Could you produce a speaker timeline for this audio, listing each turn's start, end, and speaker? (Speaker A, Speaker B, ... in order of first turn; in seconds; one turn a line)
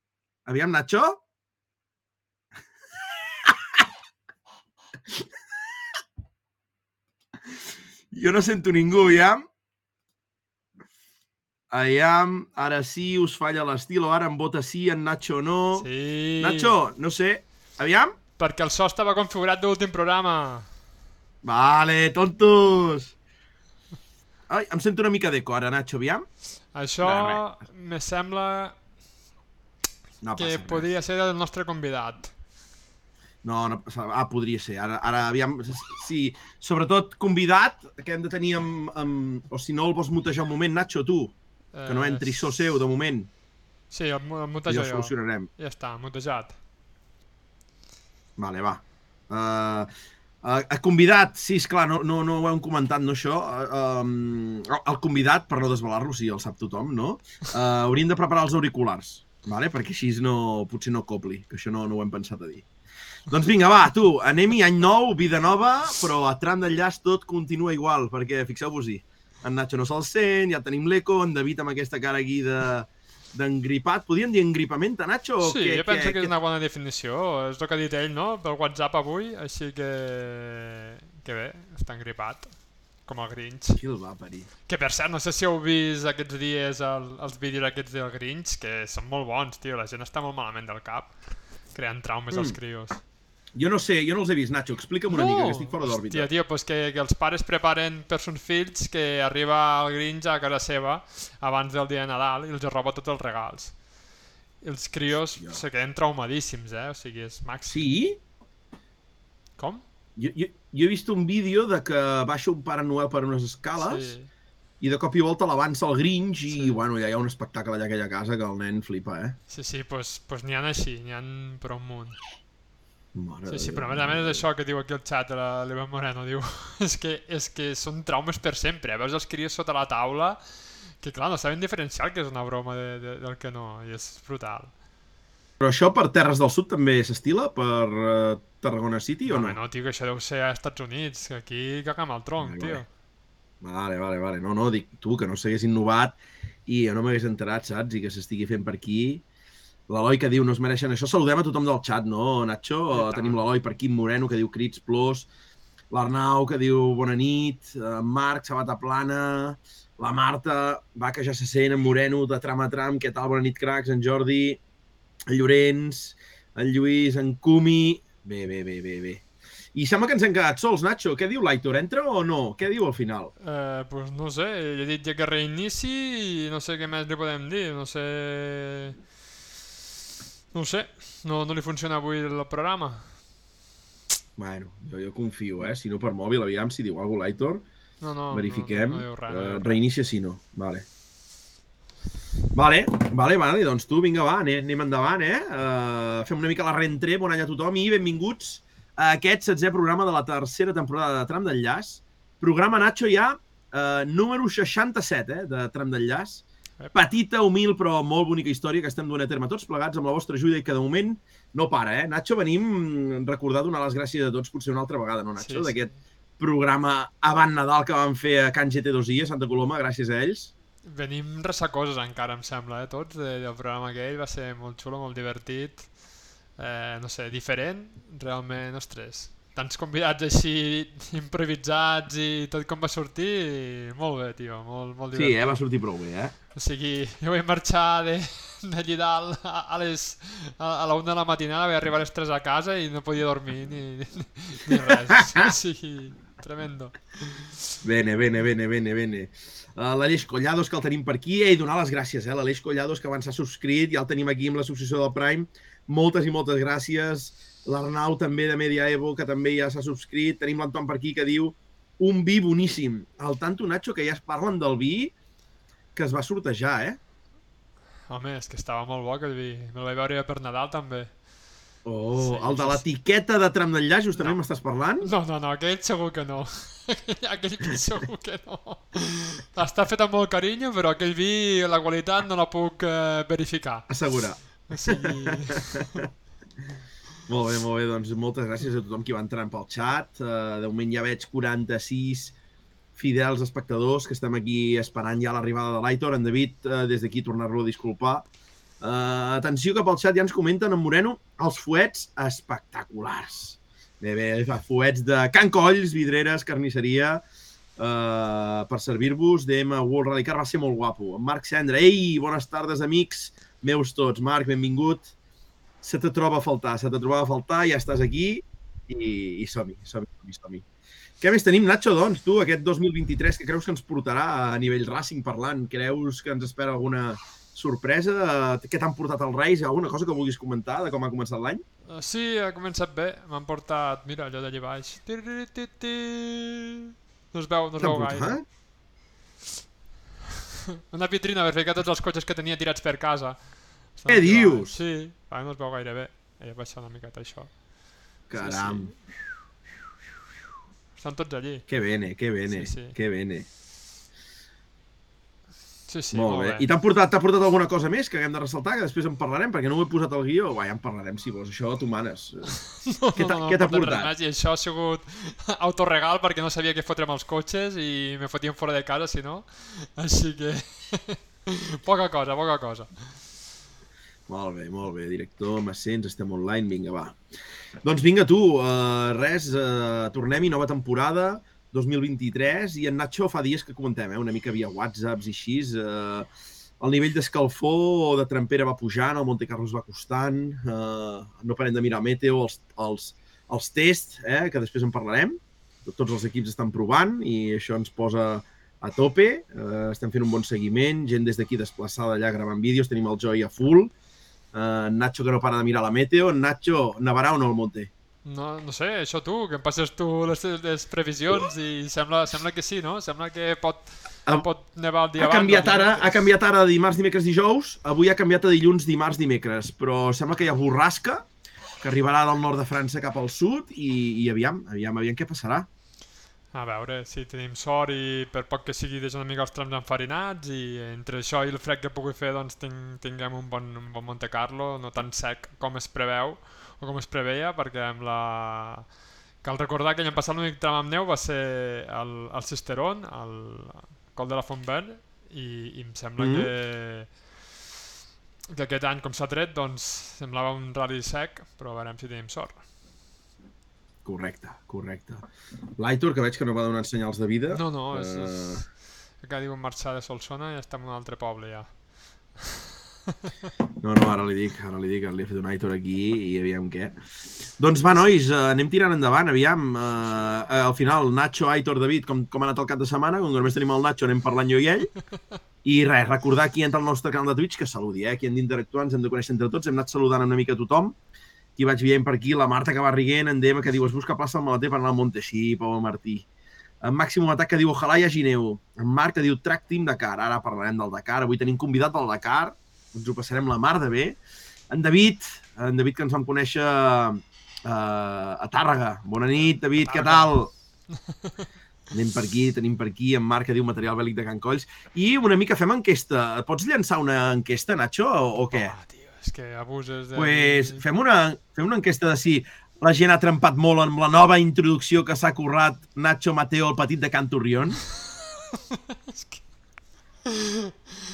Speaker A: 0.5-1.2
Speaker A: 8.1-9.4
Speaker A: 11.7-15.9
Speaker B: 15.8-16.7
Speaker A: 16.4-18.1
Speaker B: 18.4-20.7
Speaker A: 21.4-23.1
Speaker A: 24.5-26.3
Speaker B: 26.7-28.7
Speaker A: 27.0-27.4
Speaker A: 30.2-30.9
Speaker B: 30.4-32.3
Speaker A: 33.4-41.3
Speaker B: 41.7-42.4
Speaker A: 41.9-43.3
Speaker B: 43.9-46.6
Speaker A: 44.7-45.5
Speaker A: 48.4-49.9
Speaker A: 50.4-62.6
Speaker A: 63.3-76.3
Speaker B: 75.4-83.8
Speaker A: 83.7-84.5
Speaker B: 84.7-93.0
Speaker A: 92.3-92.6
Speaker A: 93.5-96.3
Speaker B: 95.1-103.8
Speaker B: 104.6-107.9
Speaker A: 107.7-108.2
Speaker B: 109.6-109.8
Speaker A: 110.2-114.2
Speaker B: 113.8-114.3
Speaker A: 114.8-119.4
Speaker B: 116.5-116.8
Speaker B: 119.5-122.2
Speaker A: 123.1-124.4
Speaker B: 123.5-134.7
Speaker A: 135.6-139.6
Speaker B: 139.3-142.9
Speaker A: 142.4-142.8
Speaker A: 143.6-149.2
Speaker A: 149.9-155.3
Speaker B: 152.9-153.4
Speaker A: 155.9-164.6
Speaker A: 165.3-169.2
Speaker A: 169.7-173.3
Speaker B: 173.4-179.0
Speaker B: 180.5-183.2
Speaker A: 184.4-187.6
Speaker B: 188.0-189.8
Speaker A: 188.3-190.8
Speaker A: 192.5-220.5
Speaker B: 215.4-215.9
Speaker B: 220.8-226.0
Speaker B: 226.6-235.7
Speaker A: 235.1-236.3
Speaker B: 236.5-247.6
Speaker A: 244.7-245.5
Speaker A: 247.8-265.1
Speaker A: 265.9-267.0
Speaker B: 268.1-271.2
Speaker A: 271.8-275.1
Speaker B: 272.2-272.8
Speaker B: 275.0-284.0
Speaker A: 283.9-286.1
Speaker B: 284.6-286.1
Speaker A: 287.3-292.3
Speaker A: 292.9-298.2
Speaker A: 298.8-307.2
Speaker A: 307.8-315.1
Speaker A: 315.8-320.6
Speaker A: 321.2-331.6
Speaker B: 331.9-338.4
Speaker A: 337.8-338.4
Speaker B: 340.9-349.0
Speaker A: 344.1-344.7
Speaker A: 348.3-348.9
Speaker B: 350.9-351.7
Speaker A: 351.7-353.4
Speaker B: 352.5-352.9
Speaker B: 355.9-356.7
Speaker A: 356.1-362.6
Speaker B: 362.9-373.2
Speaker A: 363.1-364.1
Speaker A: 374.3-377.2
Speaker A: 377.8-386.3
Speaker A: 386.8-403.9
Speaker A: 404.5-407.9
Speaker B: 408.2-416.1
Speaker A: 415.2-421.2
Speaker A: 421.8-425.7
Speaker B: 426.5-438.9
Speaker B: 439.4-447.4
Speaker A: 446.2-446.5
Speaker B: 448.5-452.6
Speaker A: 454.0-455.2
Speaker A: 455.8-458.6
Speaker B: 457.5-462.4
Speaker A: 463.8-467.0
Speaker A: 467.6-474.9
Speaker A: 475.6-480.9
Speaker A: 481.6-486.2
Speaker A: 486.8-494.2
Speaker A: 494.7-500.5
Speaker B: 499.8-500.3
Speaker B: 500.9-501.4
Speaker A: 501.9-508.8
Speaker B: 508.5-510.8
Speaker A: 510.1-517.8
Speaker B: 519.1-519.4
Speaker B: 520.3-520.7